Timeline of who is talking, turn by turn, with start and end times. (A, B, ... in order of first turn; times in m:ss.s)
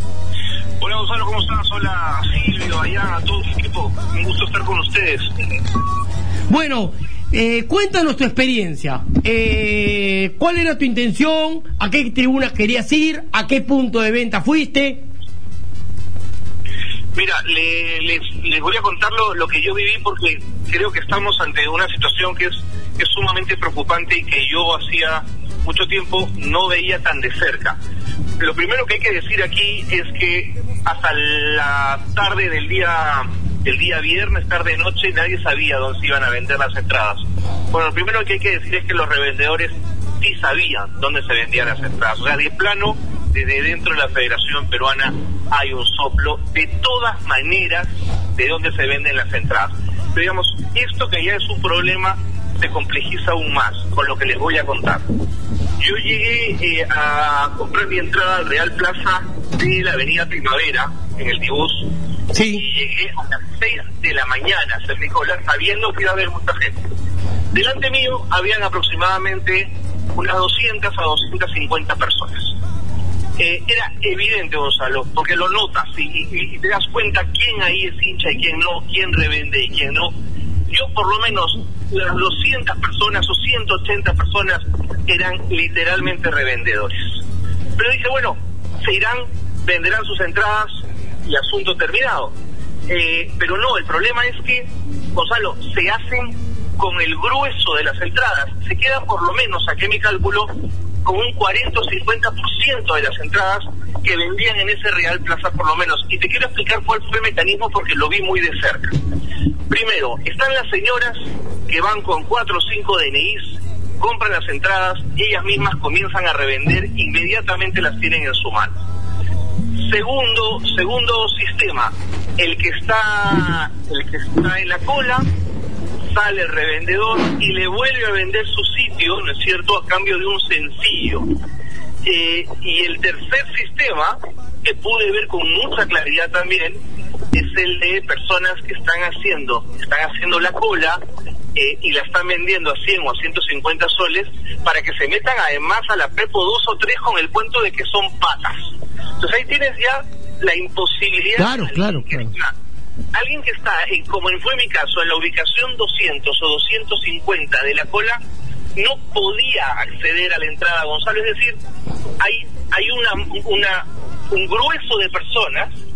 0:00.8-0:05.4 A
0:06.5-0:15.0 B
0:17.1-0:27.8 A
0:28.4-0:55.0 A
0:55.8-1:01.9 A
1:02.3-1:02.6 B
1:02.5-1:06.8 A
1:07.5-1:12.5 A
1:13.4-1:20.1 A
1:20.7-1:27.2 A
1:27.8-1:32.3 A
1:32.9-1:40.5 A
1:41.0-1:48.9 A
1:49.7-1:58.7 A
1:59.8-2:05.2 A
2:06.1-2:11.3 A
2:12.0-2:16.8 A
2:17.3-2:21.0 A
2:21.5-2:32.5 A
2:31.4-2:32.3 B
2:33.1-2:38.2 A
2:38.8-2:41.6 A
2:42.2-2:45.7 A